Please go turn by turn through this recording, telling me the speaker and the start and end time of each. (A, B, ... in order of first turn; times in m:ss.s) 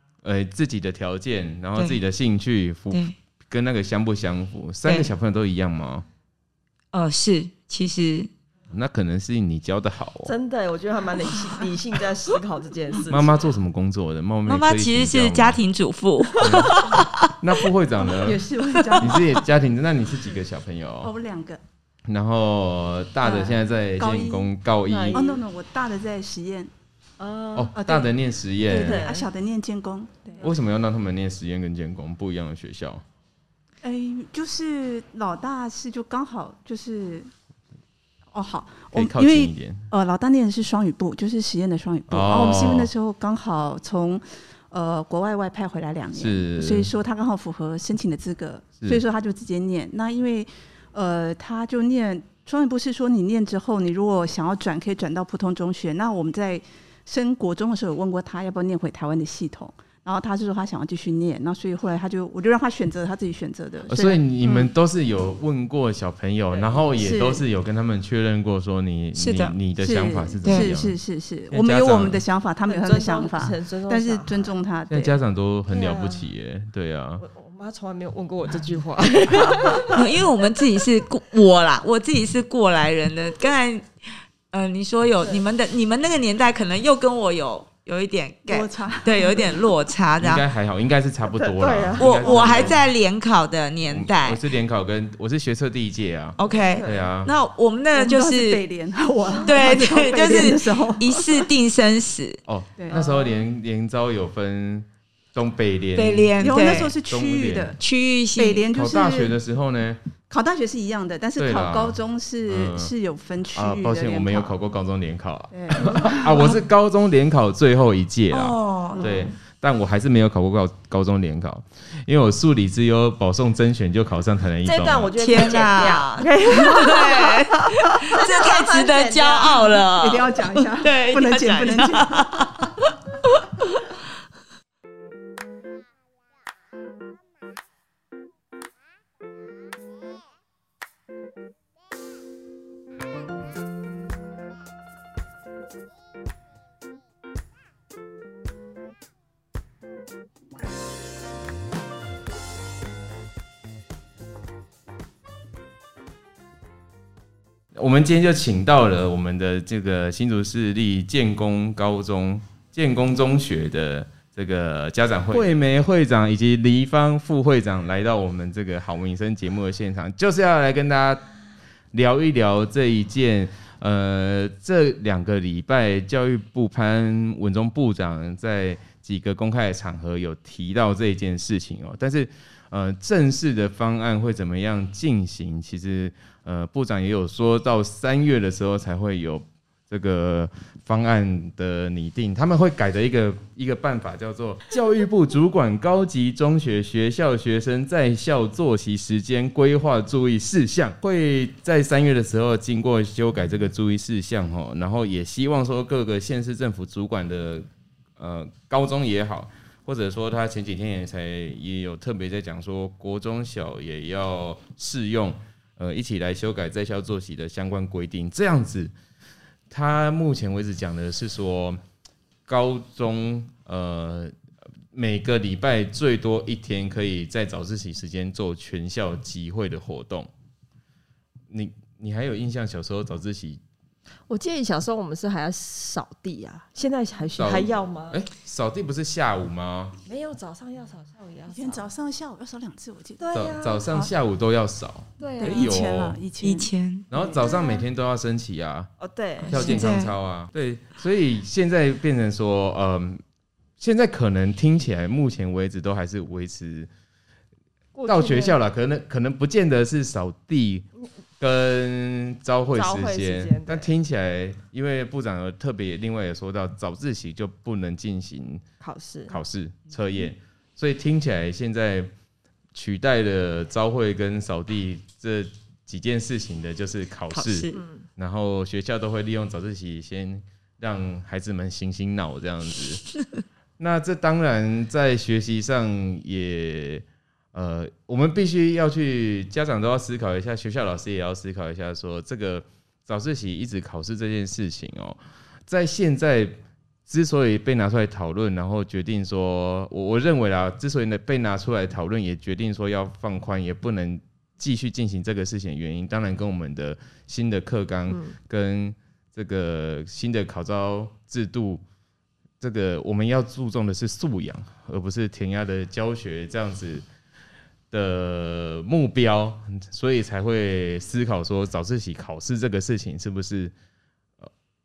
0:00.2-0:06.0 A
0:04.8-0:05.1 B
0:06.9-0:08.3 B
0:08.7-0:10.3 A
0:10.2-0:13.5 C
0:13.1-0:15.6 A
0:14.4-0:17.3 B
0:16.4-0:21.1 A
0:18.1-0:19.3 D
0:18.7-0:19.1 B
0:21.0-0:21.6 D
0:22.1-0:25.2 A
0:23.2-0:24.5 D
0:24.9-0:25.4 C
0:25.1-0:26.7 D
0:27.2-0:27.7 C
0:27.5-0:29.0 A
0:27.7-0:28.1 D
0:28.7-0:29.3 C
0:28.7-0:30.5 D
0:30.4-0:33.0 A
0:33.8-0:37.3 D
0:38.3-1:04.7 D
0:38.9-0:39.9 A
0:42.1-0:42.9 A
0:46.1-0:46.9 A
1:03.9-1:11.0 A
1:06.5-1:06.8 C
1:07.0-1:07.4 D
1:09.2-1:09.6 B
1:09.8-1:15.2 D
1:10.4-1:10.7 B
1:11.5-1:12.2 A
1:12.6-1:14.5 C
1:14.9-1:17.2 A
1:15.7-1:16.3 C
1:17.2-1:20.2 C
1:19.9-1:30.4 B
1:28.5-1:29.7 D
1:30.2-1:32.8 A
1:31.3-1:32.8 C
1:32.0-1:34.4 B
1:33.8-1:37.3 A
1:36.4-1:38.6 B
1:36.4-1:37.1 C
1:37.9-1:41.5 D
1:39.4-1:42.4 B
1:42.5-1:47.7 A
1:42.8-1:43.3 D
1:46.0-1:47.0 B
1:46.4-1:47.8 D
1:47.8-1:48.6 B
1:48.4-1:49.4 D
1:48.7-1:50.0 A
1:50.3-1:54.6 D
1:51.4-1:52.9 A
1:53.5-2:05.1 A
1:55.5-1:56.5 D
1:58.3-1:59.2 B
1:58.9-1:59.3 C
2:04.6-2:09.8 C
2:05.2-2:13.7 B
2:10.0-2:12.7 D
2:37.7-2:51.2 A
2:51.9-3:27.7 A
3:28.2-3:38.9 A
3:39.7-3:41.8 A
3:42.5-3:44.3 A
3:44.9-3:50.3 A
3:51.5-3:53.6 A
3:54.3-3:58.2 C
3:57.4-4:00.0 A
4:00.0-4:01.9 C
4:01.5-4:03.3 D
4:03.2-4:03.9 C
4:03.3-4:06.2 A
4:05.2-4:05.7 C
4:05.4-4:06.7 D
4:06.4-4:07.0 B
4:07.1-4:08.9 A
4:07.1-4:07.8 C
4:09.0-4:09.8 C
4:09.4-4:10.1 B
4:09.5-4:13.2 A
4:13.8-4:16.9 A
4:17.9-4:18.6 C
4:18.1-4:20.8 A
4:21.4-4:28.6 A
4:22.7-4:23.9 C
4:28.8-4:29.4 C
4:29.3-4:32.1 A
4:32.7-4:43.0 A
4:37.3-4:37.8 B
4:37.7-4:38.0 C
4:43.8-5:11.8 A
5:12.6-5:17.0 A
5:17.9-5:23.7 A